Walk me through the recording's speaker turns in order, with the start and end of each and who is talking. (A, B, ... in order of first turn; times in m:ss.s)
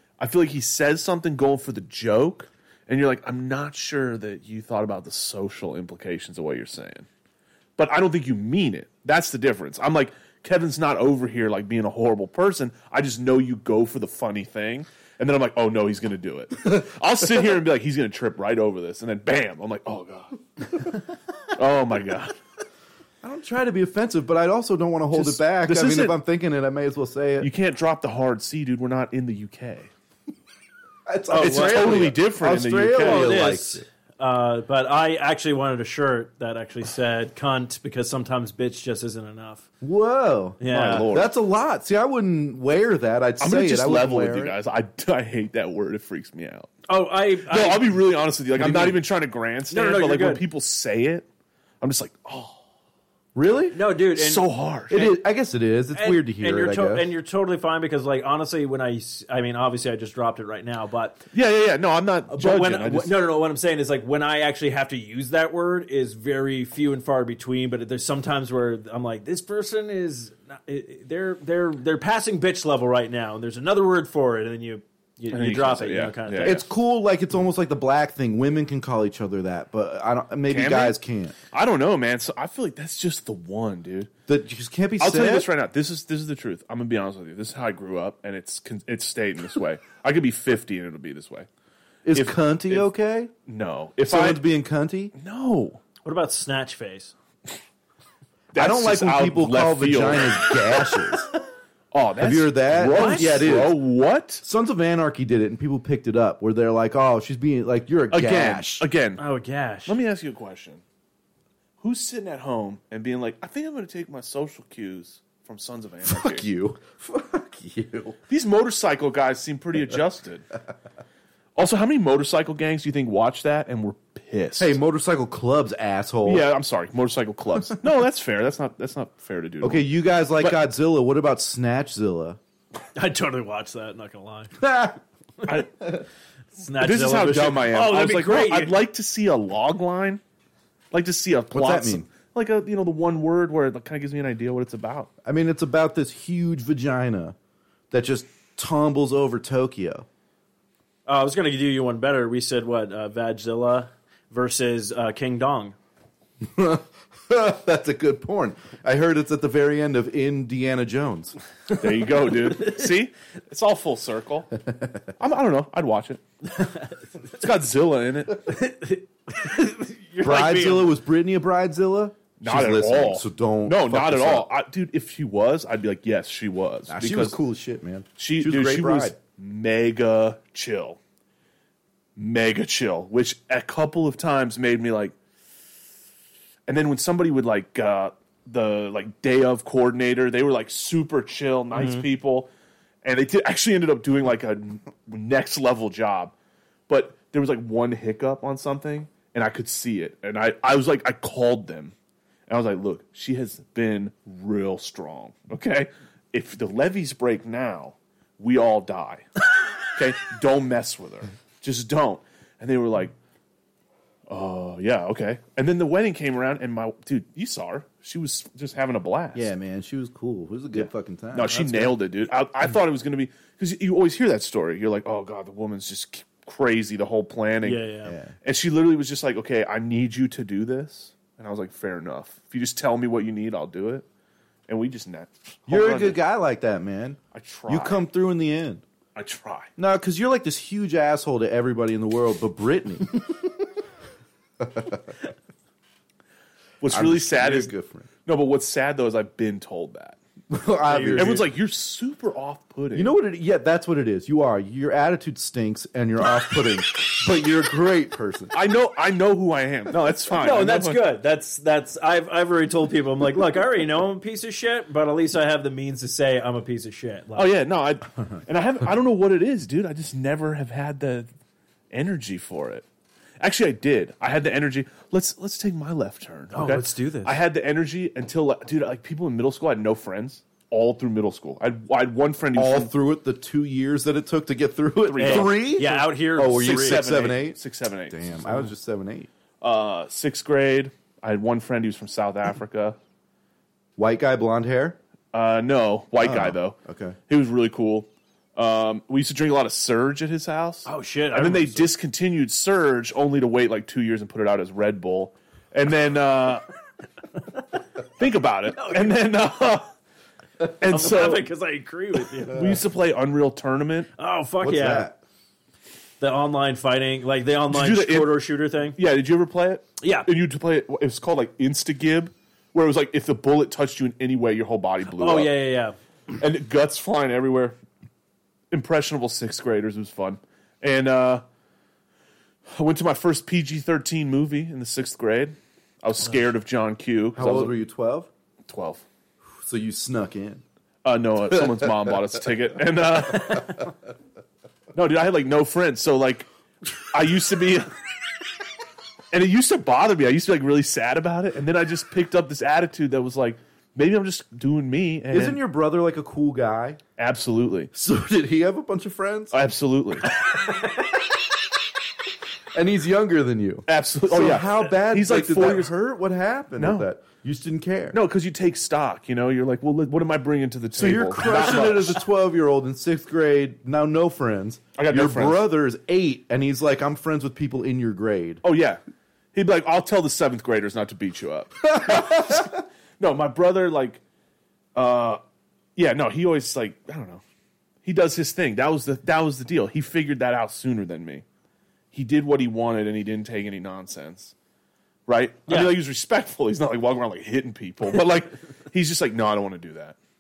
0:00.2-0:07.1 A
0:07.8-0:22.4 A
0:23.2-0:27.5 B
0:25.1-0:26.2 A
0:27.4-0:29.9 A
0:31.1-0:33.8 B
0:31.3-0:32.1 C
0:31.4-0:33.4 A
0:33.0-0:39.7 C
0:39.8-0:44.6 B
0:40.6-0:41.1 C
0:40.6-0:41.3 A
0:43.4-0:46.7 A
0:46.9-0:47.9 C
0:47.5-0:51.3 A
0:48.6-0:49.0 B
0:49.7-0:50.4 C
0:51.8-0:52.6 A
0:53.4-0:53.8 B
0:53.7-0:55.2 C
0:54.1-0:55.0 A
0:54.9-0:57.1 B
0:55.9-1:01.2 C
1:01.3-1:03.2 A
1:02.3-1:16.6 C
1:15.3-1:16.6 A
1:16.4-1:21.4 B
1:20.5-1:21.0 A
1:21.5-1:24.1 A
1:24.3-1:25.5 B
1:25.0-1:31.5 A
1:32.0-1:33.3 B
1:32.1-1:32.9 A
1:33.5-1:34.4 A
1:34.1-1:35.1 B
1:35.2-1:35.8 A
1:36.0-1:37.1 C
1:38.5-1:40.6 A
1:38.6-1:41.3 B
1:41.9-1:44.4 A
1:42.2-1:43.8 B
1:42.9-1:43.4 C
1:44.4-1:48.9 B
1:48.1-1:49.2 A
1:49.2-1:50.0 C
1:49.9-1:50.8 A
1:51.8-1:56.4 A
1:56.0-1:58.2 B
1:58.3-2:00.5 A
2:01.6-2:04.8 A
2:04.6-2:06.5 B
2:06.3-2:09.9 A
2:09.6-2:12.4 B
2:13.0-2:14.6 C
2:14.6-2:15.0 B
2:16.6-2:18.8 C
2:16.8-2:20.2 A
2:20.9-2:25.1 A
2:21.5-2:22.1 B
2:25.2-2:27.4 B
2:27.9-2:30.1 B
2:31.1-2:35.8 C
2:36.4-2:41.4 B
2:41.7-2:44.6 A
2:45.2-2:46.2 A
2:47.3-2:48.6 A
2:48.5-2:51.0 C
2:50.2-2:54.5 B
2:52.4-2:57.4 A
2:56.9-2:59.2 B
2:58.2-3:01.0 A
3:02.2-3:05.2 A
3:06.7-3:12.5 A
3:11.7-3:12.0 C
3:13.0-3:16.3 A
3:16.9-3:21.9 A
3:22.5-3:29.3 A
3:29.8-3:33.1 A
3:34.3-3:39.5 A
3:39.3-3:42.0 B
3:41.3-3:47.9 A
3:47.6-3:48.2 C
3:48.1-3:48.3 B
3:48.4-3:54.1 A
3:54.7-3:56.2 A
3:55.7-3:58.8 B
3:57.3-3:58.0 A
3:59.2-3:59.7 A
3:59.8-4:03.3 B
4:04.6-4:05.0 B
4:06.8-4:07.7 A
4:06.9-4:08.1 B
4:08.3-4:10.2 A
4:10.5-4:11.5 B
4:10.9-4:11.4 C
4:11.2-4:13.2 A
4:12.9-4:18.5 B
4:18.5-4:21.1 A
4:20.4-4:27.5 C
4:27.4-4:31.3 A
4:31.9-4:32.8 A
4:33.4-4:42.9 A
4:36.5-4:37.3 C
4:42.6-4:47.6 B
4:45.0-4:48.7 A
4:45.2-4:47.0 C
4:48.1-4:49.3 B
4:49.6-4:53.0 A
4:54.0-4:55.0 B
4:55.3-5:06.7 A
4:56.2-4:57.2 B
5:00.8-5:01.9 C
5:08.2-5:09.9 A
5:08.8-5:09.2 C
5:10.6-5:11.5 A
5:10.9-5:12.8 C
5:12.5-5:14.1 A
5:14.2-5:15.1 C
5:14.6-5:15.2 B
5:16.2-5:19.0 C
5:17.7-5:18.4 A
5:19.0-5:25.5 A
5:20.0-5:20.3 C
5:25.1-5:26.0 C
5:26.4-5:27.8 A
5:28.7-5:31.4 A
5:32.7-5:37.8 A
5:37.4-5:38.3 B
5:38.7-5:39.0 A
5:39.6-5:40.6 B
5:41.0-5:43.9 A
5:41.5-5:42.1 B
5:44.9-5:46.5 A
5:47.1-5:47.9 A
5:49.3-5:55.6 A
5:55.3-5:57.0 B
5:57.2-5:57.9 A
5:57.9-5:59.6 B
5:59.5-6:00.3 A
6:00.3-6:00.9 C
6:02.7-6:08.2 B
6:03.9-6:05.9 A
6:06.8-6:07.1 A
6:08.1-6:12.2 A
6:11.0-6:18.6 B
6:15.0-6:15.6 A
6:18.6-6:19.0 A
6:19.5-6:24.2 A
6:22.0-6:22.6 B
6:25.0-6:25.4 A
6:26.0-6:27.4 A
6:28.0-6:31.4 A
6:32.1-6:34.5 A
6:35.3-6:40.2 A
6:35.7-6:36.0 C